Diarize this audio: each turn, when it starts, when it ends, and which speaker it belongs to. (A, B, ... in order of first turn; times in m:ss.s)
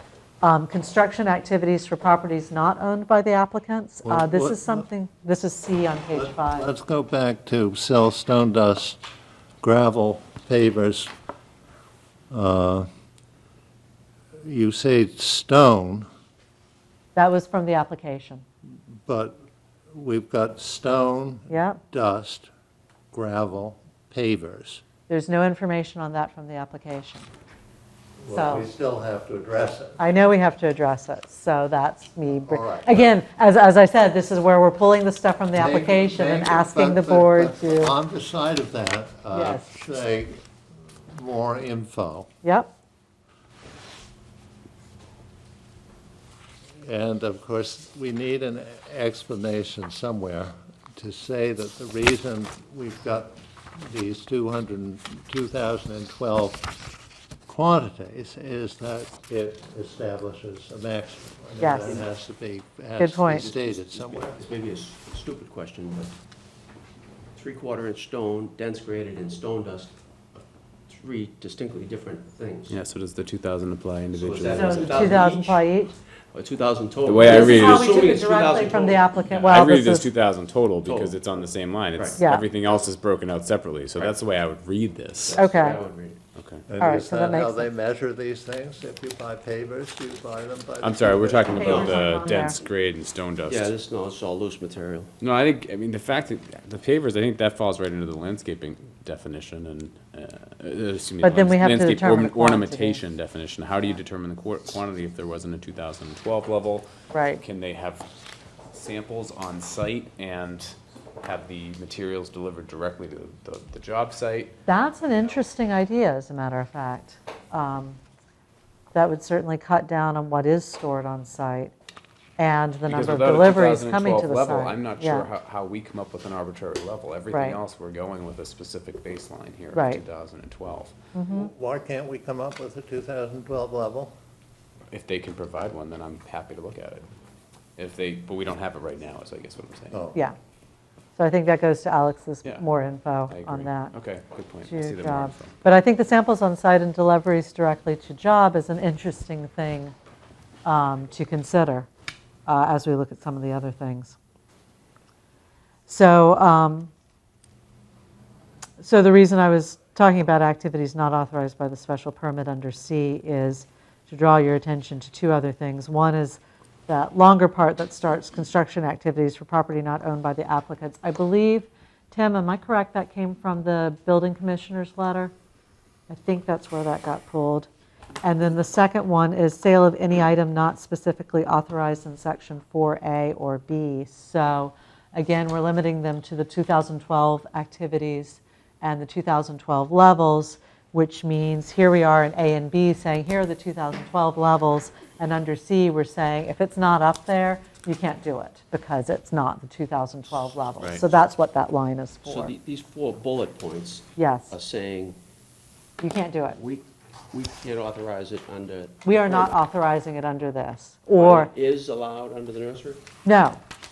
0:00.4-0:06.7 A
0:04.0-0:04.9 B
0:06.1-0:09.0 B
0:09.6-0:11.1 B
0:12.3-0:12.9 B
0:14.4-0:16.1 B
0:17.2-0:18.4 A
0:19.1-0:19.4 B
0:19.9-0:22.5 B
0:21.5-0:21.8 A
0:23.1-0:24.8 B
0:25.1-0:27.3 A
0:28.2-0:30.0 B
0:28.3-0:28.7 A
0:30.0-0:38.0 A
0:32.4-0:33.1 B
0:35.6-0:40.4 B
0:39.3-0:39.7 A
0:41.1-0:42.3 B
0:42.4-0:42.7 A
0:46.8-0:56.7 B
0:57.5-1:04.4 B
1:01.6-1:02.0 A
1:03.0-1:03.4 A
1:03.3-1:06.1 C
1:07.4-1:12.8 C
1:12.7-1:15.2 D
1:14.1-1:15.6 C
1:14.5-1:15.9 A
1:16.3-1:19.0 C
1:17.0-1:18.0 D
1:17.2-1:20.1 A
1:19.3-1:25.4 D
1:20.8-1:21.2 C
1:22.2-1:22.5 A
1:25.2-1:26.2 C
1:25.4-1:25.8 A
1:26.4-1:26.6 D
1:26.7-1:31.9 B
1:26.8-1:27.7 A
1:30.8-1:33.7 D
1:31.6-1:32.6 A
1:31.6-1:32.0 C
1:33.5-1:35.1 C
1:35.2-1:48.1 D
1:41.2-1:43.0 A
1:47.1-1:47.4 A
1:48.7-1:54.5 D
1:54.7-1:58.0 A
1:58.9-2:01.7 A
2:02.4-2:05.3 A
2:02.9-2:11.0 D
2:07.3-2:07.6 A
2:09.7-2:10.0 A
2:11.2-2:11.5 A
2:11.3-2:14.1 B
2:14.9-2:17.1 D
2:17.8-2:20.0 D
2:19.9-2:20.2 B
2:21.2-2:23.9 A
2:23.3-2:25.6 D
2:24.7-2:30.0 A
2:30.6-2:31.9 A
2:32.5-2:34.2 A
2:35.9-2:36.9 A
2:38.8-2:55.3 A
2:56.1-2:57.7 A
2:58.2-3:22.5 A
3:22.2-3:25.2 C
3:24.2-3:24.5 A
3:26.0-3:26.6 A
3:26.6-3:29.6 C
3:29.0-3:31.5 A
3:31.2-3:33.0 C
3:33.2-3:33.6 A